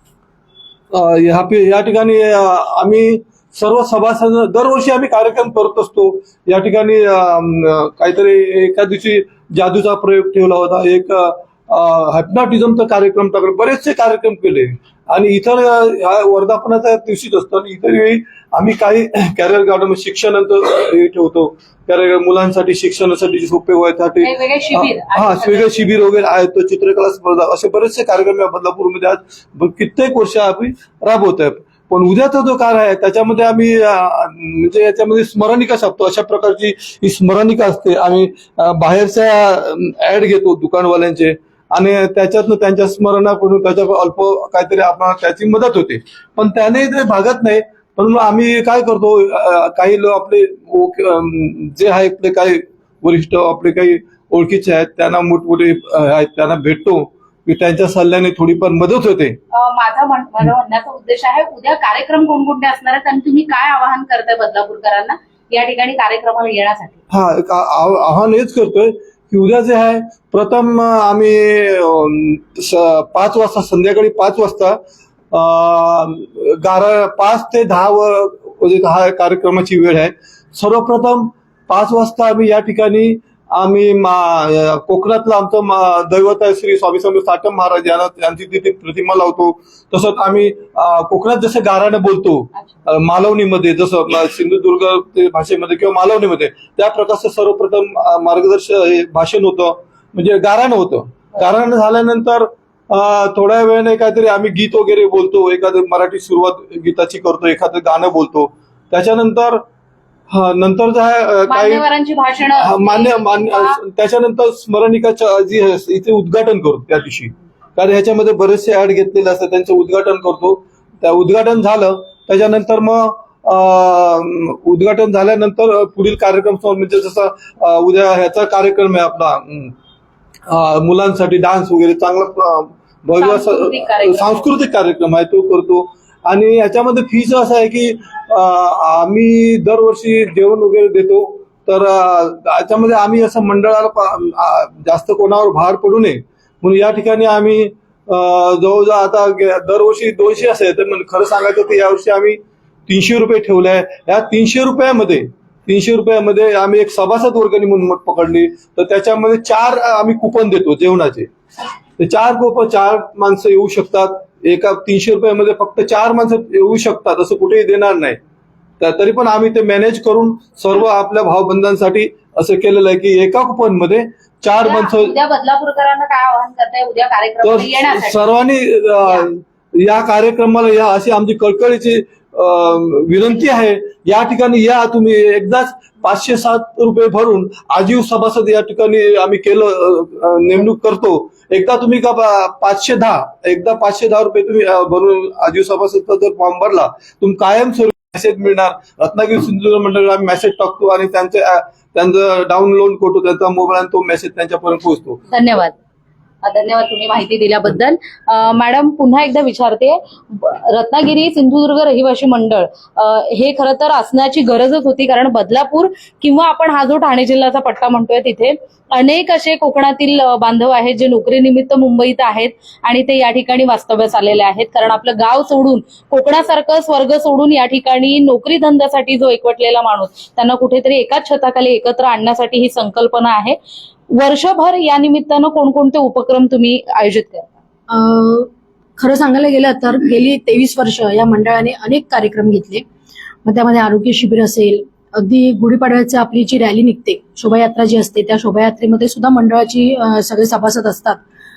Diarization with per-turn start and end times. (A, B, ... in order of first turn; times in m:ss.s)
0:00.9-0:59.4 A
0:24.2-0:25.9 B
0:59.5-1:07.0 B
1:07.1-1:14.8 A
1:15.3-1:49.6 A
1:50.3-1:51.8 A
1:51.5-1:53.8 B
1:52.6-2:09.7 A
2:10.5-2:41.3 A
2:13.2-2:14.5 B
2:42.0-2:48.2 A
2:48.8-2:55.2 A
2:54.6-2:58.2 B
2:57.4-3:25.2 A
2:59.0-2:59.3 B
3:25.3-3:25.8 B
3:26.4-3:53.6 B
3:54.1-3:57.5 B
3:57.9-4:02.8 C
4:03.4-4:11.2 C